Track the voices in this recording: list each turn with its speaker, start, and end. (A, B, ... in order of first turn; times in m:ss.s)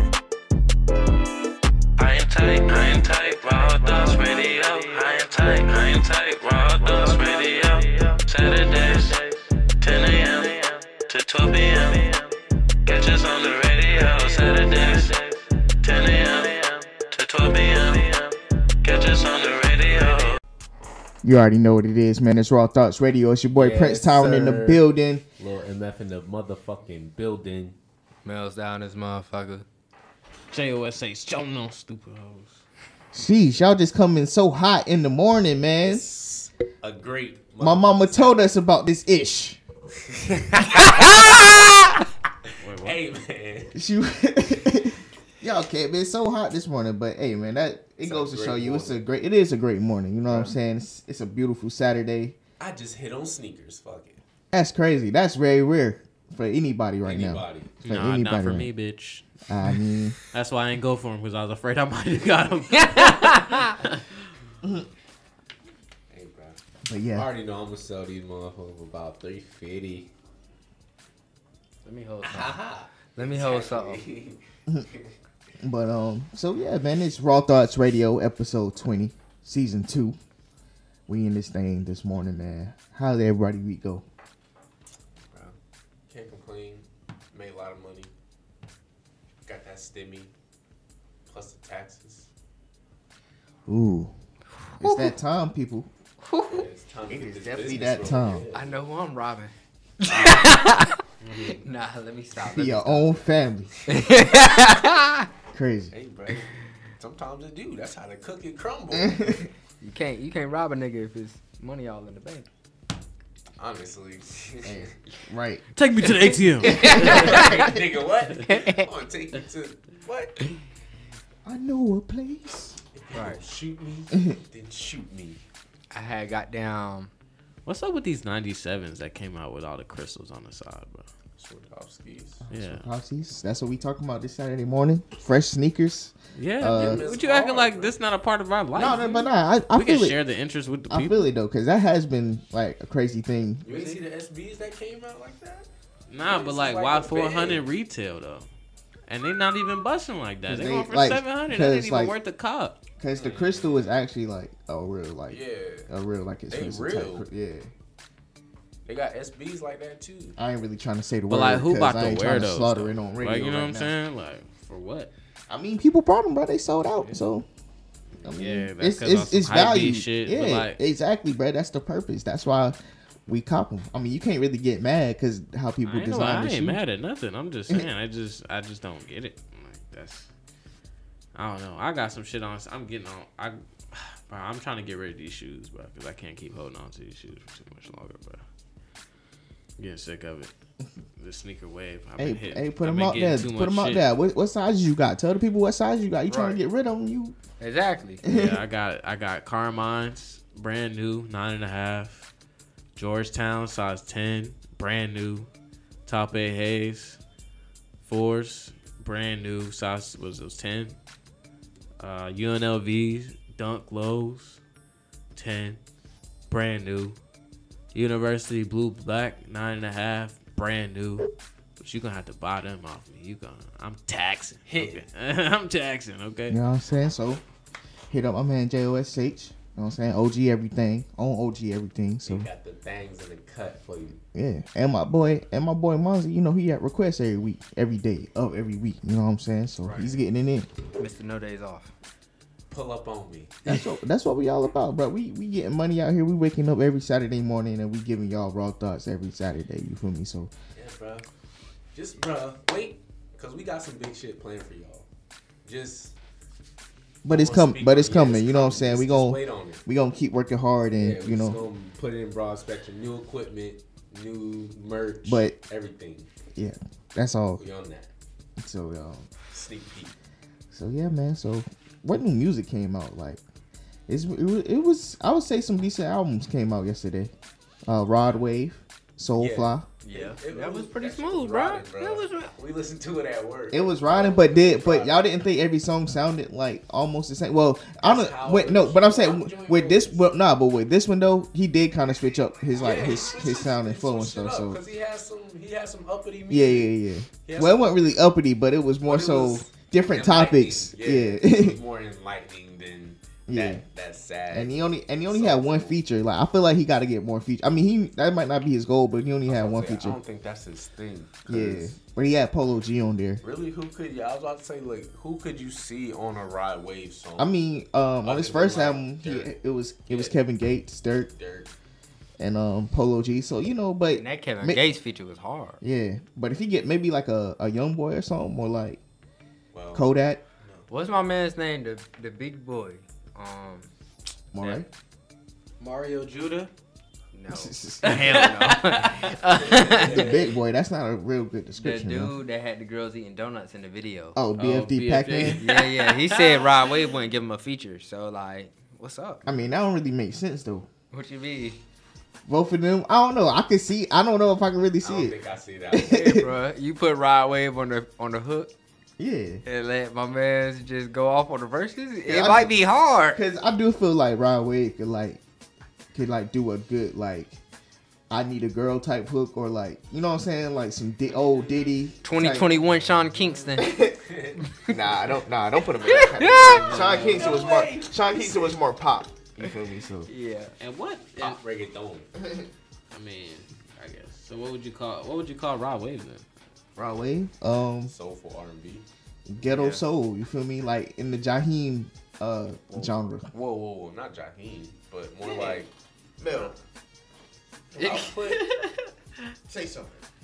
0:02.0-0:20.4 A
0:21.2-0:25.2 B
0:23.6-0:24.8 C
0:25.4-0:27.8 C
0:28.2-0:29.7 D
0:30.5-0:32.6 E
0:33.1-0:36.1 B
0:35.8-0:38.3 C
0:37.6-0:39.6 B
0:40.1-0:41.7 C
0:40.8-0:42.0 D
0:42.6-0:43.0 E
0:42.8-0:43.8 C
0:43.7-0:52.4 B
0:48.0-0:49.0 C
0:50.3-0:50.6 C
0:52.6-0:54.2 C
0:54.5-0:58.7 B
0:57.0-0:57.8 C
0:57.8-0:59.3 E
0:59.5-1:00.2 B
1:00.3-1:04.0 E
1:02.7-1:03.8 D
1:06.1-1:06.6 C
1:06.8-1:07.3 B
1:07.1-1:10.1 C
1:11.8-1:12.6 D
1:12.2-1:15.2 C
1:13.2-1:14.0 D
1:15.6-1:20.2 B
1:21.1-1:24.0 B
1:25.3-1:25.6 C
1:26.1-1:28.1 C
1:29.4-1:30.3 C
1:31.3-1:32.3 C
1:33.7-1:34.1 B
1:34.8-1:35.1 D
1:34.8-1:35.9 B
1:36.2-1:36.7 D
1:36.5-1:38.8 C
1:37.1-1:38.5 B
1:38.5-1:43.1 D
1:40.1-1:40.5 C
1:41.2-1:41.6 E
1:42.5-1:43.7 B
1:43.9-1:45.3 D
1:45.5-1:45.9 B
1:45.9-1:49.2 C
1:48.9-1:49.5 B
1:49.8-1:52.5 D
1:53.6-1:54.9 C
1:54.6-1:55.6 B
1:55.8-1:57.5 E
1:56.6-1:57.7 D
1:56.7-2:00.4 C
1:58.5-1:58.9 D
2:01.4-2:02.8 B
2:02.9-2:05.4 C
2:03.1-2:03.4 D
2:05.9-2:07.1 D
2:07.7-2:11.1 E
2:11.4-2:12.4 C
2:12.4-2:17.1 B
2:12.5-2:12.8 E
2:16.4-2:21.3 E
2:16.7-2:18.0 C
2:18.7-2:20.2 B
2:20.9-2:23.7 B
2:23.6-2:25.7 C
2:26.1-2:28.5 E
2:26.2-2:27.6 C
2:29.1-2:32.8 E
2:30.5-2:32.2 B
2:33.0-2:37.7 B
2:33.1-2:33.9 C
2:35.3-2:35.9 C
2:36.5-2:37.3 C
2:38.8-2:40.4 C
2:40.4-2:43.9 B
2:41.3-2:45.1 E
2:45.5-2:47.5 B
2:48.2-2:56.8 B
2:48.4-2:50.8 E
2:55.8-3:00.3 E
3:01.4-3:08.4 E
3:09.8-3:10.5 E
3:11.2-3:14.0 E
3:12.2-3:17.4 B
3:16.3-3:16.6 D
3:17.6-3:18.2 D
3:18.2-3:18.6 B
3:18.3-3:22.3 E
3:23.0-3:25.5 E
3:26.1-3:27.2 E
3:28.0-3:31.0 E
3:32.0-3:34.6 E
3:35.4-3:35.8 E
3:36.5-3:37.2 E
3:37.9-3:46.6 E
3:44.7-3:45.0 C
3:46.5-3:47.4 B
3:48.1-3:52.5 B
3:52.2-3:54.2 C
3:54.3-4:00.7 B
3:59.8-4:00.1 C
4:01.0-4:01.9 D
4:02.7-4:03.6 C
4:03.6-4:10.5 B
4:10.8-4:11.3 C
4:11.9-4:15.1 C
4:15.6-4:16.2 C
4:17.2-4:21.6 B
4:17.3-4:19.8 C
4:21.0-4:26.3 C
4:25.2-4:25.6 B
4:26.6-4:27.6 B
4:27.6-4:28.1 C
4:28.6-4:29.3 B
4:29.5-4:30.2 C
4:30.7-4:33.4 B
4:34.1-4:37.3 B
4:37.9-4:39.9 B
4:39.4-4:45.4 C
4:40.1-4:42.5 D
4:43.7-4:54.8 B
4:48.0-4:50.3 C
4:52.7-4:56.9 C
4:56.5-5:01.8 B
4:57.4-4:57.9 C
4:59.0-5:04.8 C
5:03.5-5:03.8 B
5:04.5-5:10.2 B
5:05.3-5:06.0 C
5:09.5-5:12.0 C
5:11.5-5:13.4 B
5:13.4-5:17.5 C
5:17.4-5:21.3 B
5:18.2-5:19.5 C
5:20.1-5:20.4 C
5:21.4-5:21.7 C
5:22.4-5:24.8 B
5:24.2-5:25.8 D
5:25.8-5:29.0 B
5:29.7-5:30.1 C
5:29.9-5:30.4 B
5:30.9-5:33.9 D
5:34.5-5:34.9 B
5:35.8-5:36.7 C
5:37.3-5:40.4 D
5:37.5-5:39.0 B
5:38.1-5:40.5 C
5:39.7-5:42.3 B
5:41.8-5:44.4 D
5:44.4-5:45.6 B
5:44.6-5:46.7 E
5:45.6-5:49.5 D
5:49.4-5:50.9 B
5:51.1-5:51.8 D
5:52.5-5:55.4 B
5:55.0-5:56.3 C
5:55.9-5:56.5 B
5:56.1-5:58.7 D
5:59.2-5:59.6 B
5:59.7-6:03.4 D
6:02.3-6:02.7 B
6:03.4-6:05.4 B
6:06.1-6:07.6 B
6:08.3-6:12.8 B
6:12.2-6:13.9 D
6:13.1-6:14.6 C
6:13.8-6:14.2 B
6:14.6-6:14.9 D
6:14.9-6:20.3 B
6:16.0-6:16.9 D
6:16.6-6:17.6 E
6:16.7-6:18.8 C
6:20.3-6:20.7 D
6:20.8-6:21.6 E
6:21.4-6:22.3 C
6:22.4-6:22.7 B
6:23.1-6:26.4 E
6:27.0-6:28.1 B
6:28.1-6:29.0 C
6:29.5-6:33.5 B
6:29.6-6:30.0 D
6:33.5-6:35.9 C
6:36.4-6:36.7 B
6:36.5-6:36.8 C
6:38.0-6:38.6 C
6:38.0-6:39.1 D
6:39.7-6:40.2 B